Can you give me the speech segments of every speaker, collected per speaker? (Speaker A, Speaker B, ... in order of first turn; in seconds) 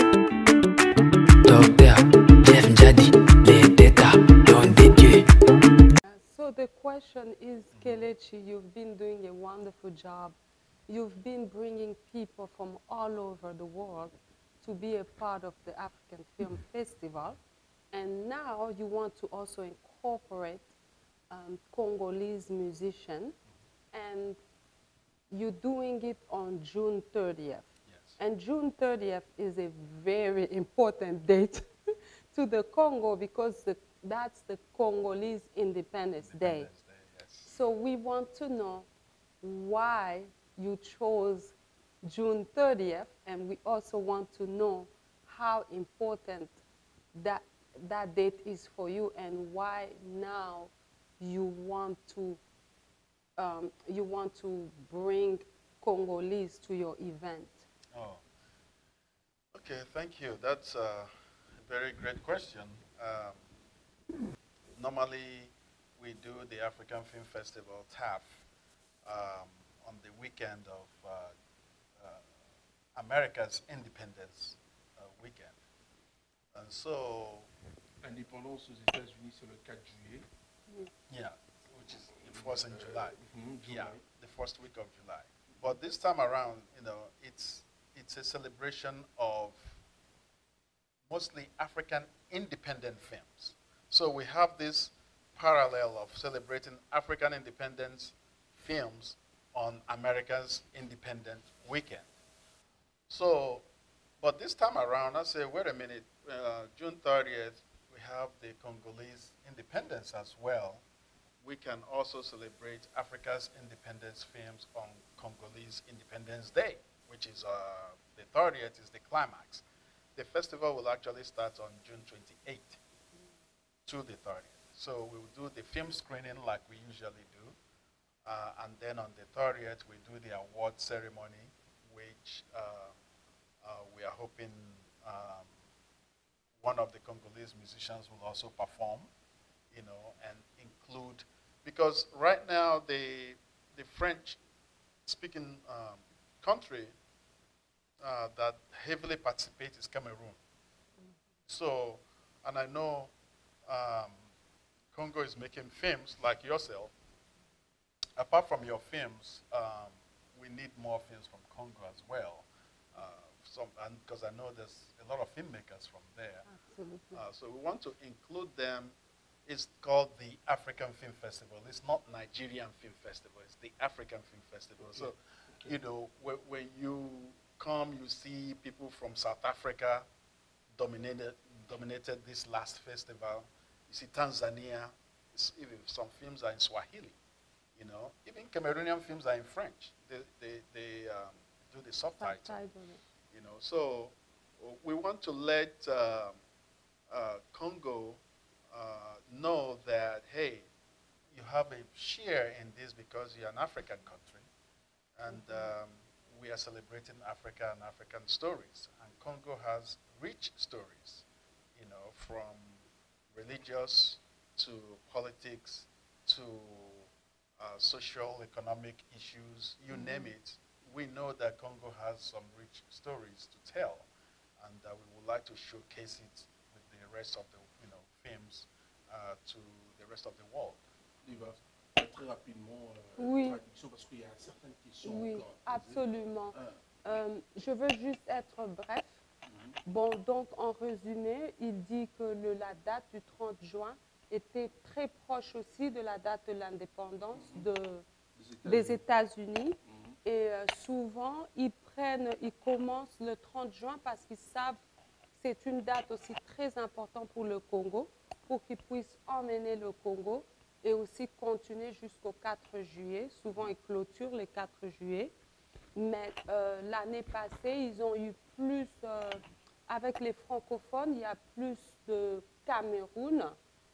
Speaker A: 1.4-5.3
Speaker B: 6.0-10.4, 10.9-17.4, 17.9-20.7, 21.3-23.4, 23.9-24.4, 25.3-27.7, 28.2-31.7, 32.3-36.7, 37.5-38.9, 39.4-46.6, 47.1-52.4, 53.4-57.7, 166.5-167.2, 192.2-193.0, 205.3-205.7, 219.9-220.3, 233.2-233.6, 235.0-239.2, 239.8-248.1, 248.7-254.8, 255.3-265.4, 266.0-273.6
Speaker C: 7.7-8.1, 27.9-28.2, 36.2-37.5, 57.9-58.2, 59.5-63.4, 64.8-68.5, 69.0-71.3, 72.0-72.2, 73.0-75.5, 76.5-77.5, 81.1-89.8, 91.1-102.1, 103.1-103.7, 104.2-110.8, 111.4-119.6, 120.2-122.8, 123.9-127.6, 128.2-132.9, 133.6-135.5, 136.6-139.1, 139.7-144.4, 145.1-146.9, 148.0-150.4, 151.5-153.1, 153.7-154.2, 154.9-156.9, 158.2-166.5, 167.1-180.1, 180.8-187.2, 187.8-192.6, 193.3-196.4, 197.1-200.7, 201.3-204.5, 205.2-224.1, 224.6-230.8
Speaker D: 78.0-80.3, 82.2-84.0, 85.5-85.8, 174.8-175.8, 231.2-236.8, 239.5-239.8, 247.3-247.7, 248.4-249.0, 249.9-250.2